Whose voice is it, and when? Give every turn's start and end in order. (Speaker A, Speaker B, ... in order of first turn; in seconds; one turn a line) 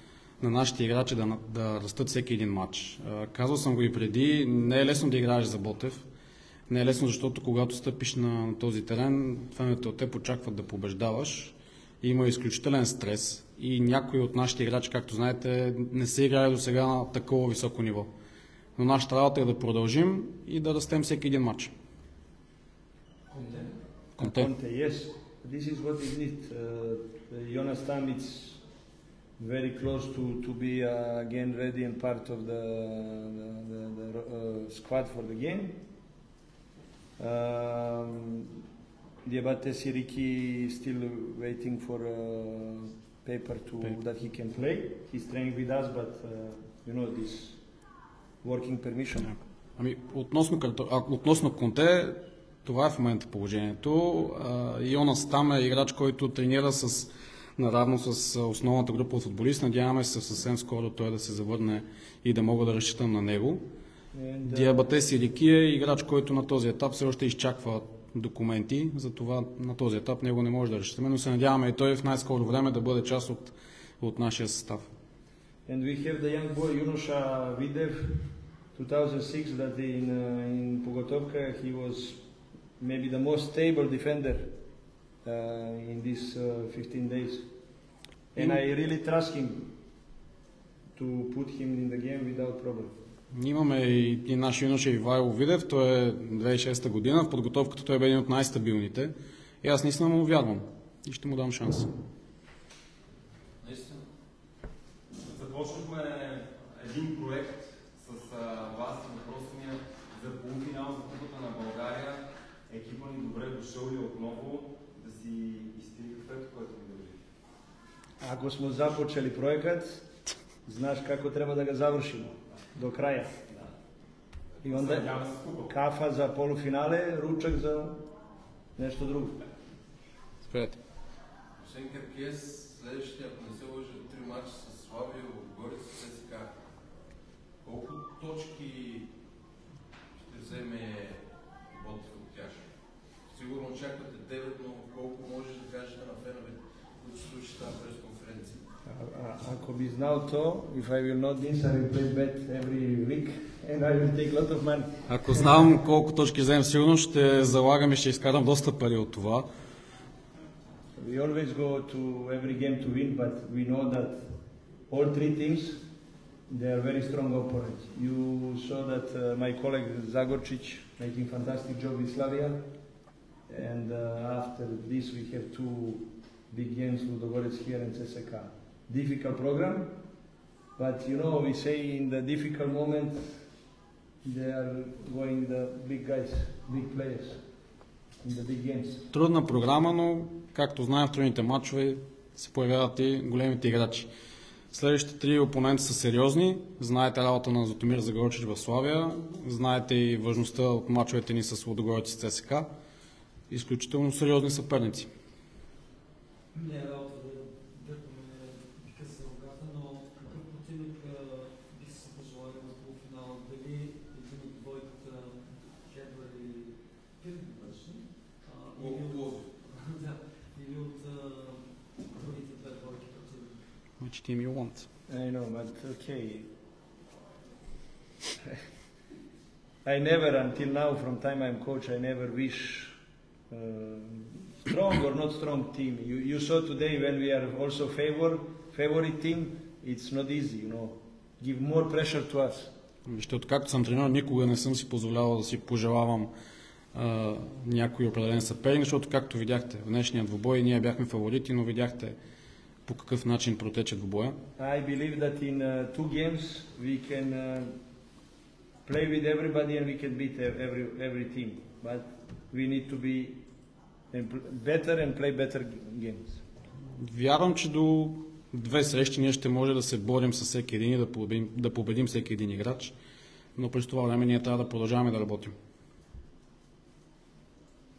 Speaker A: 0.4-6.0
Speaker A: 6.7-18.1
Speaker A: 18.8-21.7
Speaker B: 23.3-23.7
Speaker C: 23.4-23.7
Speaker A: 24.2-24.5
Speaker C: 24.2-28.6
Speaker C: 29.4-35.8
Speaker C: 37.2-38.5
Speaker C: 39.2-47.6
Speaker C: 48.4-49.3
Speaker A: 49.2-63.6
Speaker C: 64.1-64.8
Speaker A: 64.5-74.9
Speaker C: 75.7-78.2
Speaker C: 78.8-82.2
Speaker C: 82.8-84.5
Speaker C: 85.2-87.5
Speaker C: 88.3-89.7
Speaker C: 91.0-92.9
Speaker A: 93.3-101.9
Speaker D: 103.6-104.0
Speaker D: 105.2-117.2
Speaker C: 118.2-120.0
Speaker C: 120.7-123.3
Speaker C: 124.6-128.0
Speaker D: 124.6-125.7
Speaker C: 128.8-129.4
Speaker A: 130.4-130.8
Speaker E: 131.6-136.4
Speaker E: 137.6-139.1
Speaker E: 140.2-141.2
Speaker E: 141.7-142.6
Speaker E: 143.3-148.6
Speaker C: 148.9-154.9
Speaker A: 155.1-159.5
Speaker C: 161.0-164.2
Speaker C: 164.9-165.8
Speaker C: 166.5-172.6
Speaker C: 173.5-179.9
Speaker C: 180.8-183.4
Speaker C: 184.2-187.4
Speaker C: 188.2-189.0
Speaker A: 189.1-194.1
Speaker A: 194.7-202.7
Speaker A: 203.5-205.1
Speaker B: 206.5-223.6
Speaker A: 224.0-224.9
Speaker C: 225.1-226.5
Speaker C: 229.8-233.0
Speaker C: 233.5-242.7
Speaker A: 243.1-246.3
Speaker A: 246.9-252.2
Speaker A: 252.9-254.4
Speaker C: 254.6-257.7
Speaker C: 258.9-263.4
Speaker C: 264.1-266.4
Speaker A: 267.0-272.9
Speaker A: 273.6-275.5